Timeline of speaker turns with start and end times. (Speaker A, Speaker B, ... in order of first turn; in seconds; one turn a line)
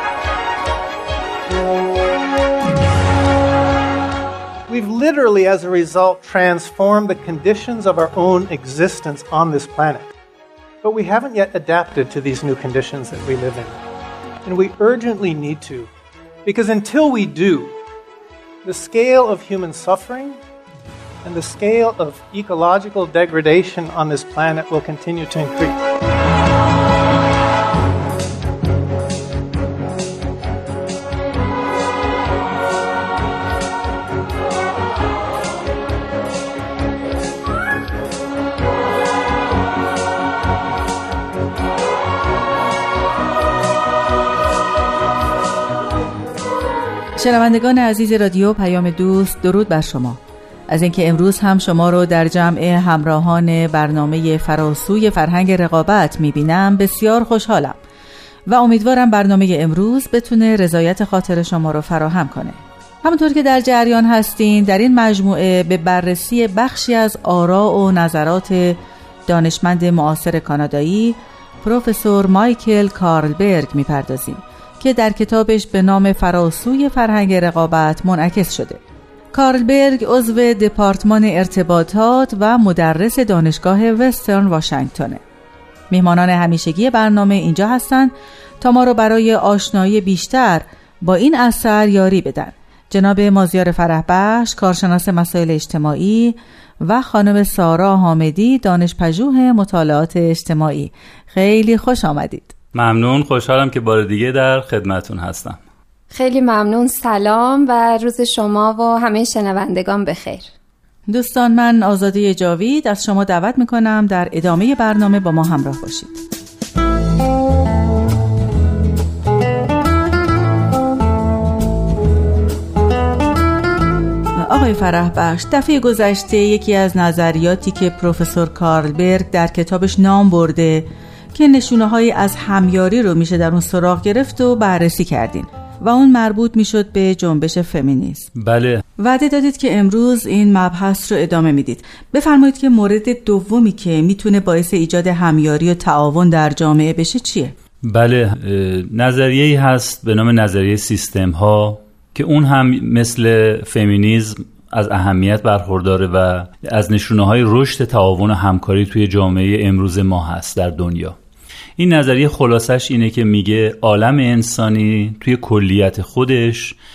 Speaker A: 4.7-10.1
Speaker A: 10.8-13.8
Speaker A: 14.4-15.9
Speaker A: 16.4-17.8
Speaker A: 18.6-20.4
Speaker A: 21.2-25.8
Speaker B: 47.2-57.8
Speaker B: 58.5-78.8
Speaker B: 79.3-85.2
Speaker B: 85.9-102.5
Speaker C: 102.7-105.6
Speaker D: 106.1-110.5
Speaker B: 111.1-116.2
Speaker B: 124.4-138.3
Speaker C: 138.3-138.8
Speaker B: 139.0-147.5
Speaker C: 147.8-161.2
Speaker C: 161.8-166.8